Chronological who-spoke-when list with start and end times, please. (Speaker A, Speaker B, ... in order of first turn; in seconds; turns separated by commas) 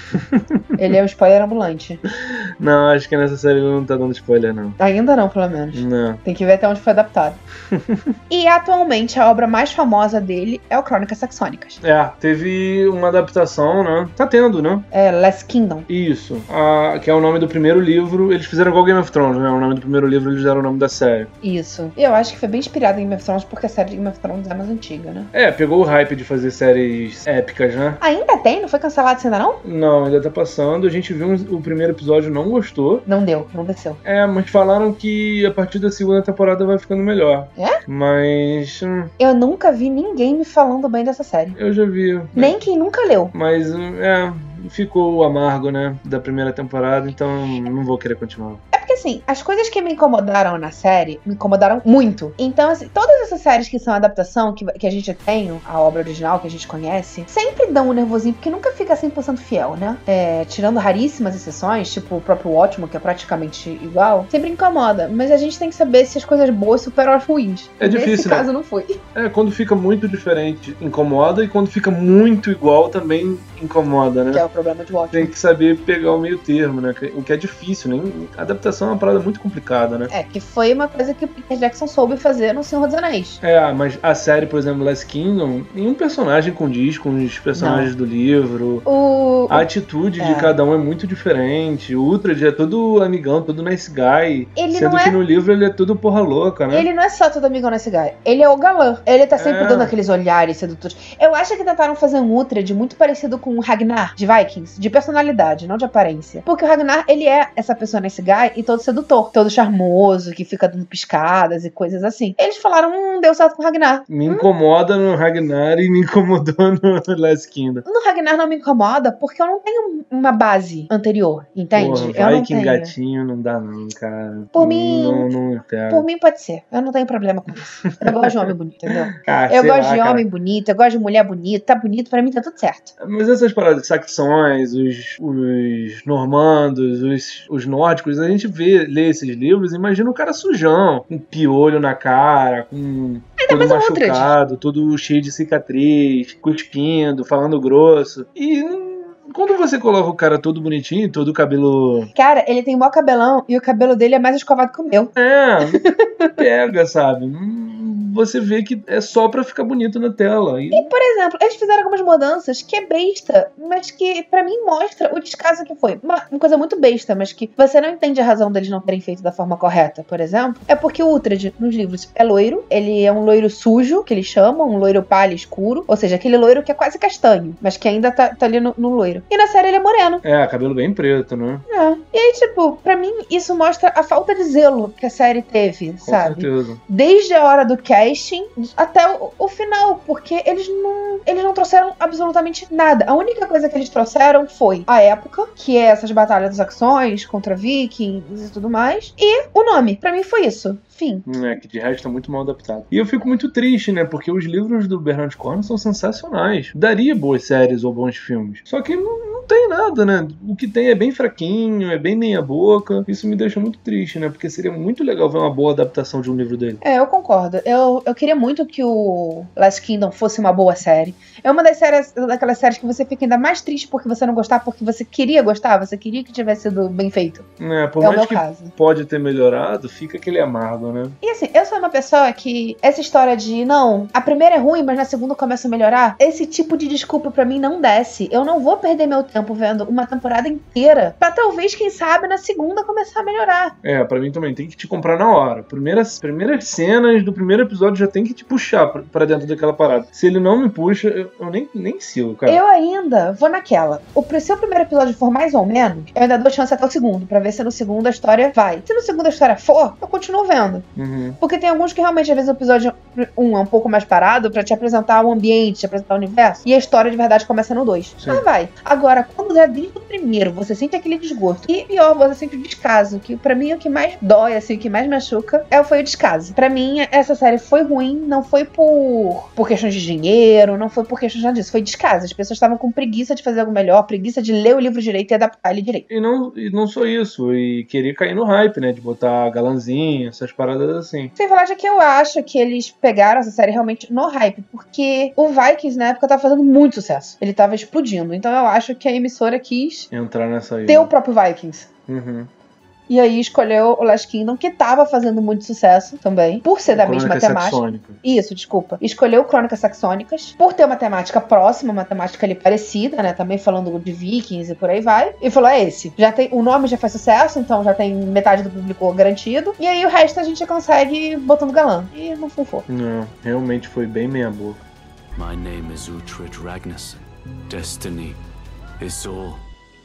Speaker A: 0.1-0.7, Speaker B: 0.8-2.0, Speaker A: 2.1-4.8, Speaker B: 4.8-7.4, Speaker A: 5.7-6.2, Speaker A: 7.7-8.1, Speaker B: 8.3-11.8, Speaker A: 11.8-14.8, Speaker B: 14.9-15.9, Speaker A: 15.9-21.3, Speaker B: 21.4-25.3, Speaker A: 25.3-28.0, Speaker B: 28.0-29.6, Speaker A: 29.6-33.0, Speaker B: 33.0-34.0, Speaker A: 34.0-39.1, Speaker B: 39.2-41.6, Speaker A: 41.5-42.5, Speaker B: 42.3-43.3, Speaker A: 43.3-48.6, Speaker B: 48.7-69.0, Speaker A: 67.8-68.5, Speaker A: 69.1-74.4, Speaker B: 74.3-75.3, Speaker A: 75.1-80.1, Speaker B: 80.1-83.4, Speaker A: 83.4-88.9, Speaker B: 87.5-87.9, Speaker B: 88.8-89.7, Speaker A: 89.5-96.9, Speaker B: 90.2-90.5, Speaker B: 94.5-95.2, Speaker B: 96.7-114.5, Speaker A: 99.4-99.9, Speaker A: 114.1-117.8, Speaker B: 117.8-122.9, Speaker A: 121.7-126.0, Speaker B: 124.5-125.3, Speaker B: 125.9-132.9, Speaker A: 127.8-130.2, Speaker A: 133.0-152.1, Speaker B: 143.4-144.3, Speaker B: 152.1-156.4, Speaker A: 155.2-155.8, Speaker A: 156.4-160.9, Speaker B: 160.7-180.2, Speaker A: 180.2-181.6, Speaker B: 181.7-201.2, Speaker A: 186.0-186.8, Speaker A: 201.2-216.8, Speaker B: 216.8-227.5, Speaker A: 227.6-231.2, Speaker B: 228.0-228.7, Speaker B: 231.2-243.7, Speaker A: 243.8-252.6, Speaker B: 252.4-260.9, Speaker A: 260.9-261.4, Speaker B: 261.4-286.1, Speaker A: 286.1-291.3, Speaker B: 291.4-300.1, Speaker A: 300.1-301.1, Speaker B: 300.9-301.9, Speaker A: 302.1-302.5, Speaker B: 303.1-322.9, Speaker A: 306.9-308.2, Speaker A: 322.9-324.8, Speaker C: 325.3-328.4, Speaker C: 329.0-329.6